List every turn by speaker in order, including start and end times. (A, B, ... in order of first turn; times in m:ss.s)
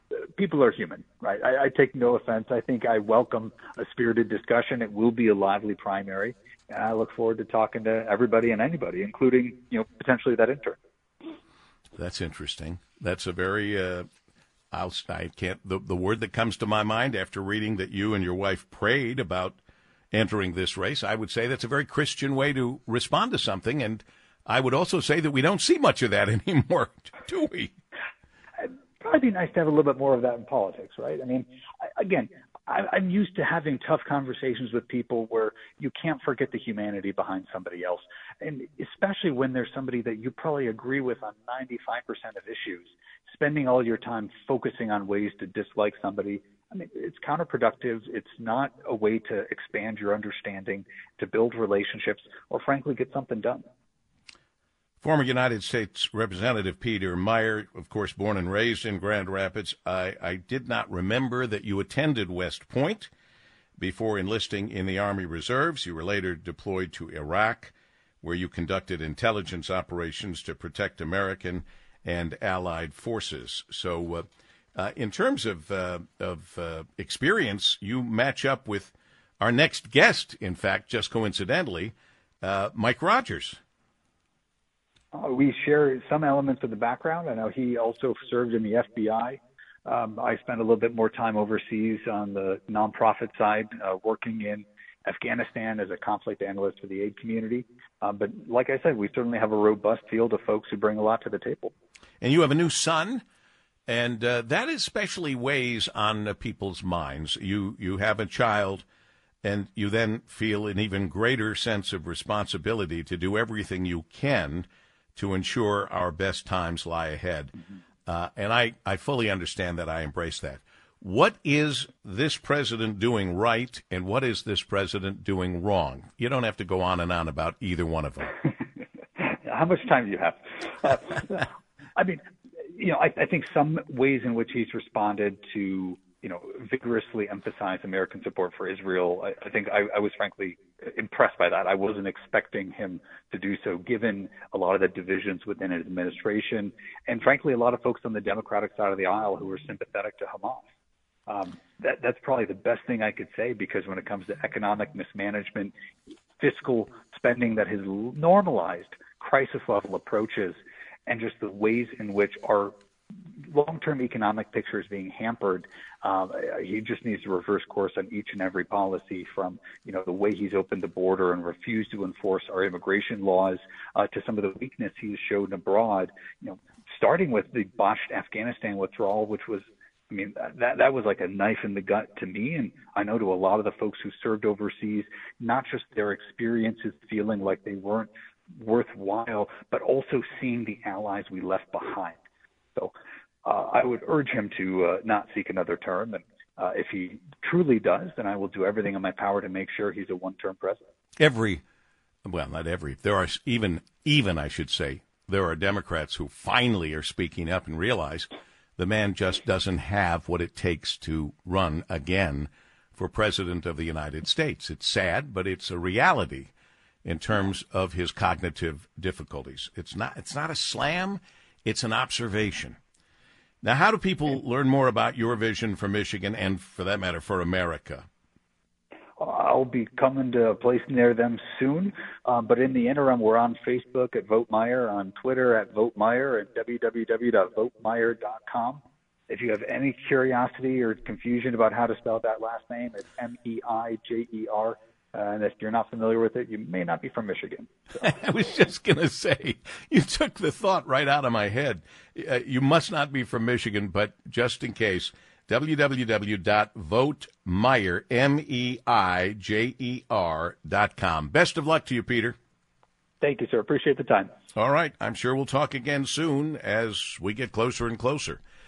0:00.4-0:10.8 A
0:12.0-0:14.1 B
0:14.7-0:19.6 B
0:20.1-0:27.7 B
0:29.0-0:53.6 A
0:55.0-1:03.1 B
1:03.8-1:23.6 B
1:25.1-1:41.7 A
1:42.2-1:43.2 B
1:43.9-1:48.8 B
1:49.4-1:57.5 B
1:58.1-2:08.3 B
2:09.2-2:12.2 A
2:12.8-2:30.6 A
2:31.3-2:35.7 A
2:36.4-2:42.8 A
2:43.4-3:12.2 A
3:13.4-3:20.8 A
3:21.2-3:21.6 B
3:22.2-3:36.5 B
3:37.0-3:42.8 B
3:43.6-3:48.1 B
3:49.2-4:08.0 A
4:08.0-4:22.4 B
4:23.2-4:24.3 A
4:24.6-4:28.4 B